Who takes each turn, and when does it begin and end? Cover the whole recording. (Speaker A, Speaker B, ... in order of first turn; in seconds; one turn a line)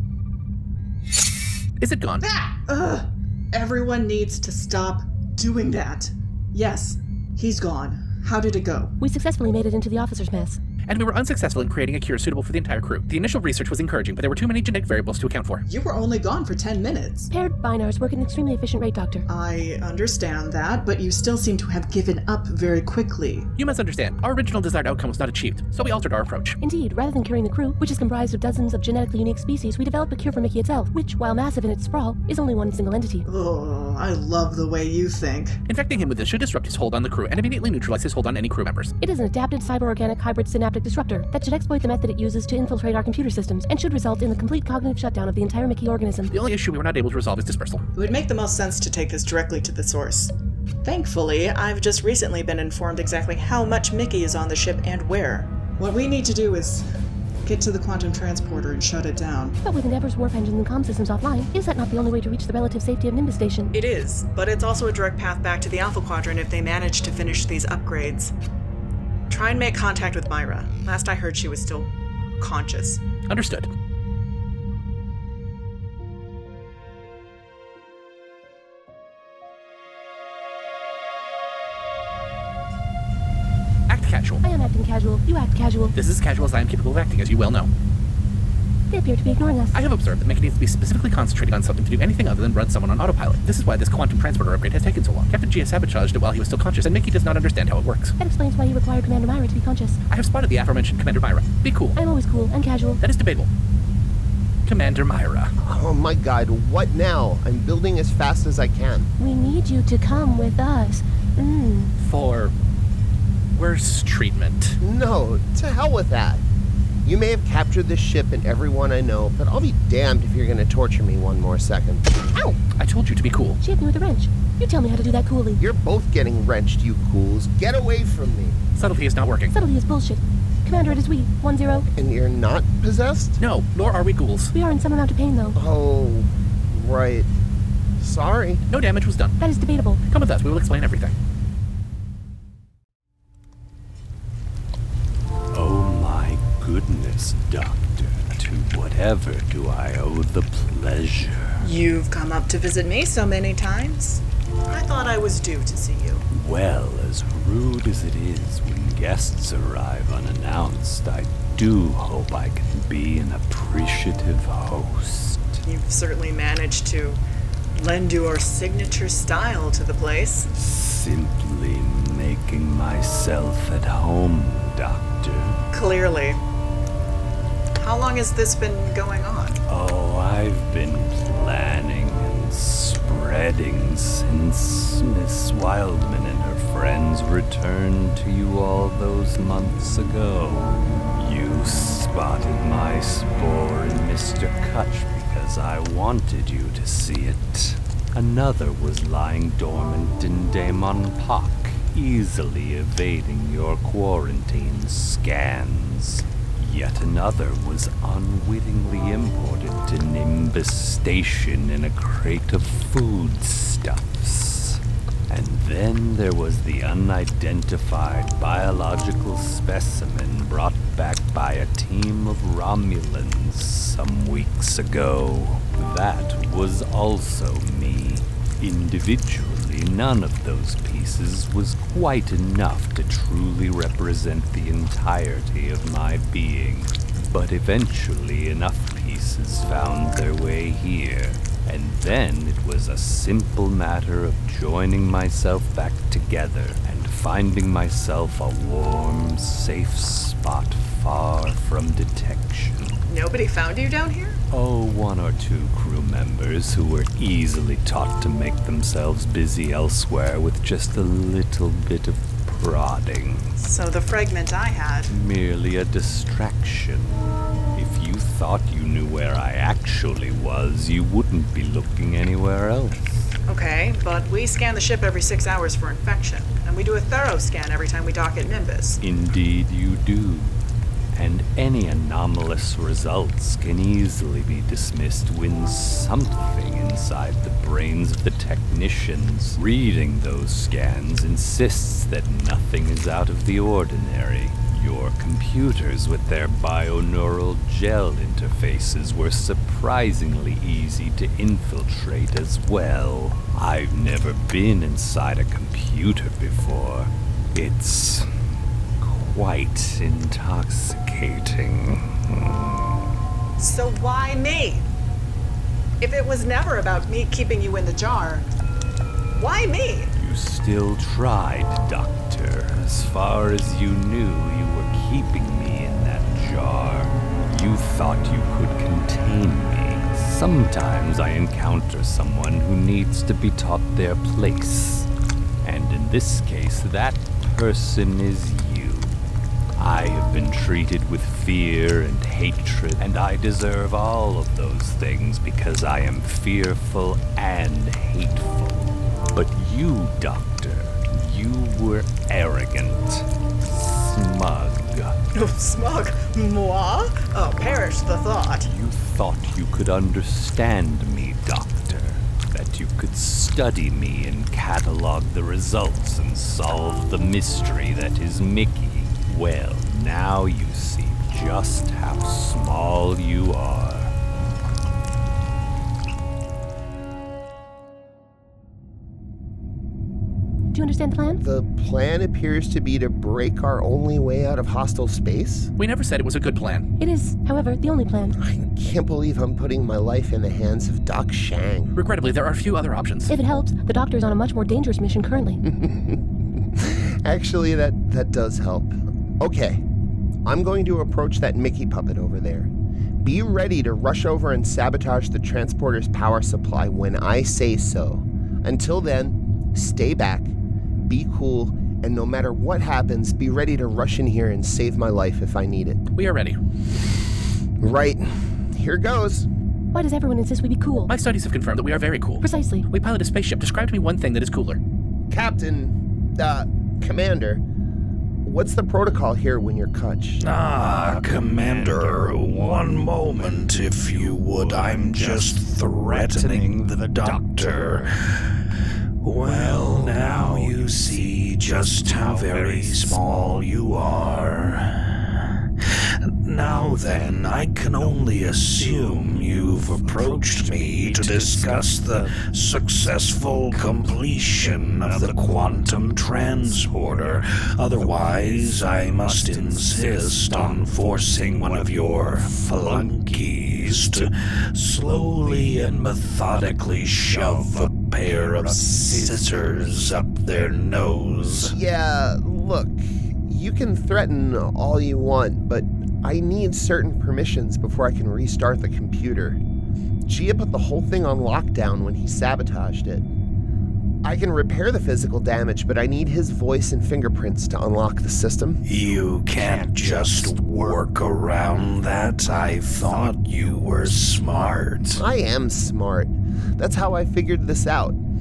Speaker A: 1.8-2.2
Speaker B: 2.2-8.9
Speaker C: 9.0-10.6
Speaker A: 10.9-15.6
Speaker B: 15.7-17.3
Speaker C: 17.3-19.3
Speaker B: 19.3-23.5
Speaker A: 23.6-26.6
Speaker C: 26.6-33.3
Speaker B: 33.3-35.6
Speaker A: 35.7-38.9
Speaker C: 39.0-46.3
Speaker A: 46.3-47.8
Speaker B: 48.0-50.3
Speaker B: 50.8-56.9
Speaker B: 57.5-59.6
Speaker C: 59.6-63.7
Speaker B: 63.7-68.3
Speaker B: 69.3-73.0
Speaker A: 73.3-73.7
Speaker A: 83.9-84.4
Speaker C: 84.4-86.0
Speaker A: 86.0-87.7
Speaker C: 88.9-89.8
Speaker A: 89.7-98.2
Speaker C: 98.2-100.0
Speaker A: 100.1-102.0
Speaker C: 102.0-103.0
Speaker A: 103.0-103.5
Speaker A: 104.7-105.5
Speaker D: 105.6-109.1
Speaker C: 109.2-111.9
Speaker A: 112.0-112.5
Speaker A: 113.5-114.8
Speaker D: 114.8-116.4
Speaker D: 117.0-122.0
Speaker A: 122.4-123.6
Speaker C: 123.6-125.6
Speaker D: 125.6-128.6
Speaker A: 128.8-129.5
Speaker C: 129.5-131.9
Speaker D: 132.0-133.4
Speaker A: 133.4-134.5
Speaker C: 134.5-135.6
Speaker D: 135.6-137.3
Speaker D: 138.0-138.6
Speaker A: 138.7-139.4
Speaker C: 139.4-140.0
Speaker A: 140.1-141.1
Speaker E: 145.5-151.7
Speaker B: 151.6-156.2
Speaker E: 156.3-165.6
Speaker B: 165.7-167.2
Speaker B: 167.8-170.5
Speaker E: 170.5-175.6
Speaker B: 175.7-176.4
Speaker B: 177.8-179.6
Speaker E: 179.7-253.0
Speaker B: 253.1-254.4
Speaker E: 254.5-263.5
Speaker B: 263.6-265.1
Speaker E: 265.1-273.3
Speaker B: 273.5-279.0
Speaker E: 279.0-280.6
Speaker E: 281.1-308.3
Speaker E: 309.0-312.9
Speaker B: 313.6-314.9
Speaker B: 316.0-318.5
Speaker B: 319.4-320.1
Speaker E: 320.2-335.1
Speaker E: 335.6-339.2
Speaker E: 339.8-355.2
Speaker B: 355.3-358.7
Speaker E: 358.6-374.1
Speaker C: 380.7-381.4
Speaker D: 381.4-385.7
Speaker A: 385.8-386.9
Speaker C: 387.0-388.4
Speaker D: 388.4-391.9
Speaker A: 391.9-393.3
Speaker C: 393.3-395.6
Speaker D: 395.7-399.8
Speaker D: 400.4-402.7
Speaker D: 403.2-410.5
Speaker D: 411.1-416.0
Speaker A: 416.1-416.6
Speaker D: 417.8-419.5
Speaker C: 419.9-421.1
Speaker A: 421.1-424.8
Speaker C: 422.4-422.9
Speaker D: 425.3-427.6
Speaker D: 428.4-430.4
Speaker F: 430.4-438.1
Speaker E: 431.0-433.0
Speaker E: 434.3-435.5
Speaker E: 436.1-438.0
Speaker F: 439.2-445.2
Speaker E: 439.5-440.7
Speaker E: 442.1-443.2
Speaker F: 446.4-471.8
Speaker E: 449.9-452.0
Speaker E: 468.5-469.5
Speaker D: 471.6-479.6
Speaker D: 480.3-483.3
Speaker D: 484.2-488.8
Speaker F: 488.9-495.2
Speaker D: 495.2-498.2